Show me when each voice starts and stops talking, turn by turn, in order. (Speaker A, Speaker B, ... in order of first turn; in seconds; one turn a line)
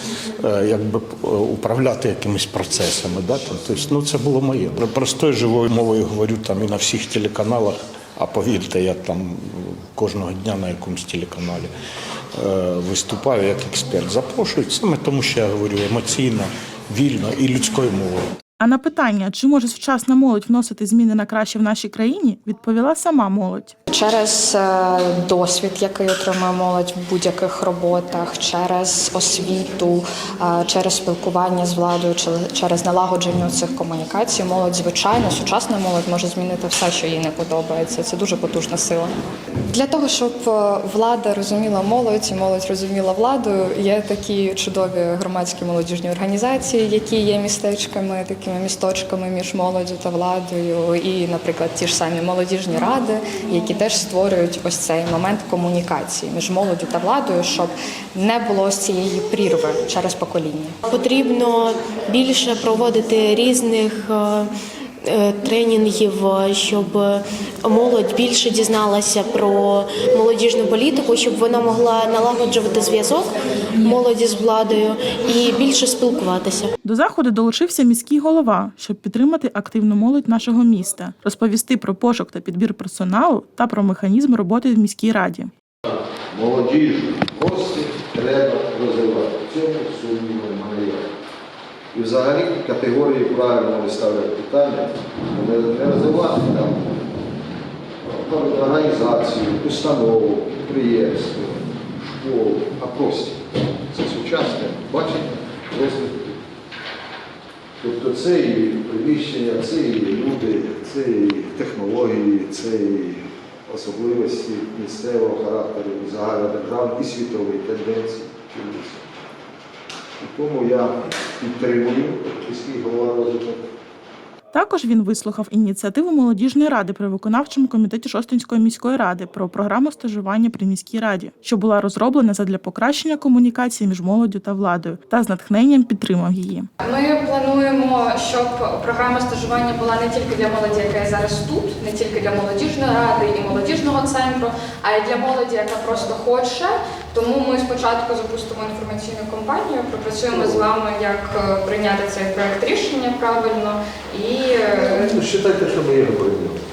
Speaker A: 0.4-11.7
Speaker A: 12.3-18.3
Speaker B: 18.6-23.8
Speaker C: 23.9-39.1
Speaker C: 39.7-60.8
Speaker D: 60.9-64.5
Speaker D: 65.0-76.7
Speaker B: 76.8-85.5
Speaker E: 86.3-91.1
Speaker E: 91.9-96.9
Speaker E: 98.1-106.4
Speaker E: 107.8-119.0
Speaker E: 120.2-123.6
Speaker B: 124.5-136.7
Speaker C: 136.8-155.2
Speaker E: 150.3-150.7
Speaker E: 154.8-156.6